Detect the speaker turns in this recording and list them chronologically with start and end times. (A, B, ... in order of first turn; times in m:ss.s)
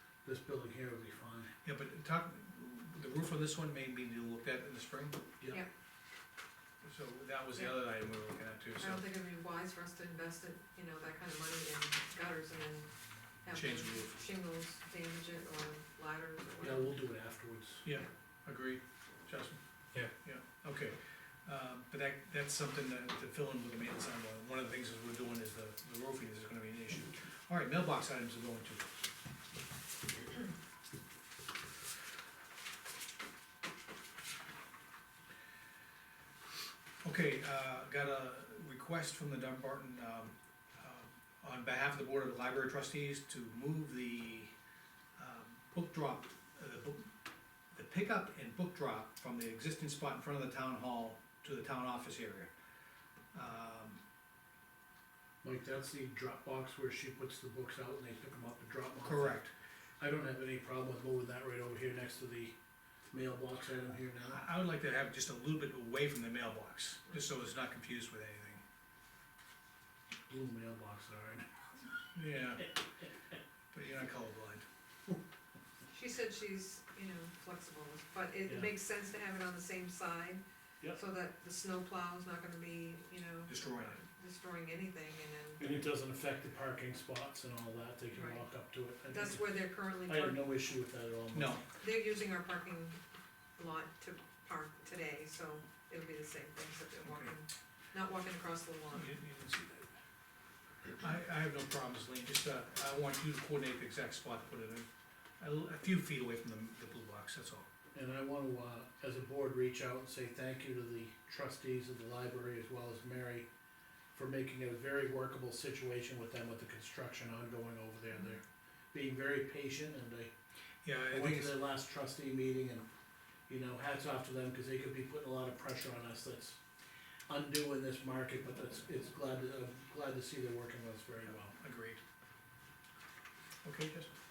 0:00.2-0:01.5 A
0:01.6-0:05.2 B
0:06.8-0:09.0 B
0:08.8-0:12.9 C
0:13.4-0:17.0 C
0:13.5-0:14.2 B
0:16.6-0:17.8 A
0:17.8-0:19.6 B
0:20.2-0:28.9 B
0:37.0-0:44.5 B
0:45.2-0:47.1 B
0:47.7-0:52.5 B
0:53.3-0:54.0 B
0:55.4-0:59.4 A
0:59.0-0:59.5 B
1:00.0-1:02.6 A
1:03.1-1:04.4 A
1:04.3-1:08.6 B
1:10.3-1:11.6 A
1:12.2-1:12.7 B
1:13.7-1:14.7 B
1:15.9-1:20.4 C
1:21.0-1:25.8 C
1:23.5-1:24.0 B
1:25.6-1:29.5 A
1:28.1-1:28.4 C
1:29.1-1:30.4 C
1:30.1-1:31.6 A
1:31.3-1:31.6 B
1:31.8-1:33.0 C
1:33.6-1:39.1 C
1:37.0-1:37.3 B
1:38.9-1:39.9 B
1:41.0-1:44.9 B
1:45.4-1:47.7 B
1:48.0-1:53.5 A
1:54.1-2:00.3 A
2:00.8-2:01.6 B
2:01.1-2:02.9 A
2:03.5-2:06.6 A
2:07.3-2:11.5 A
2:11.5-2:12.0 B
2:13.6-2:14.1 B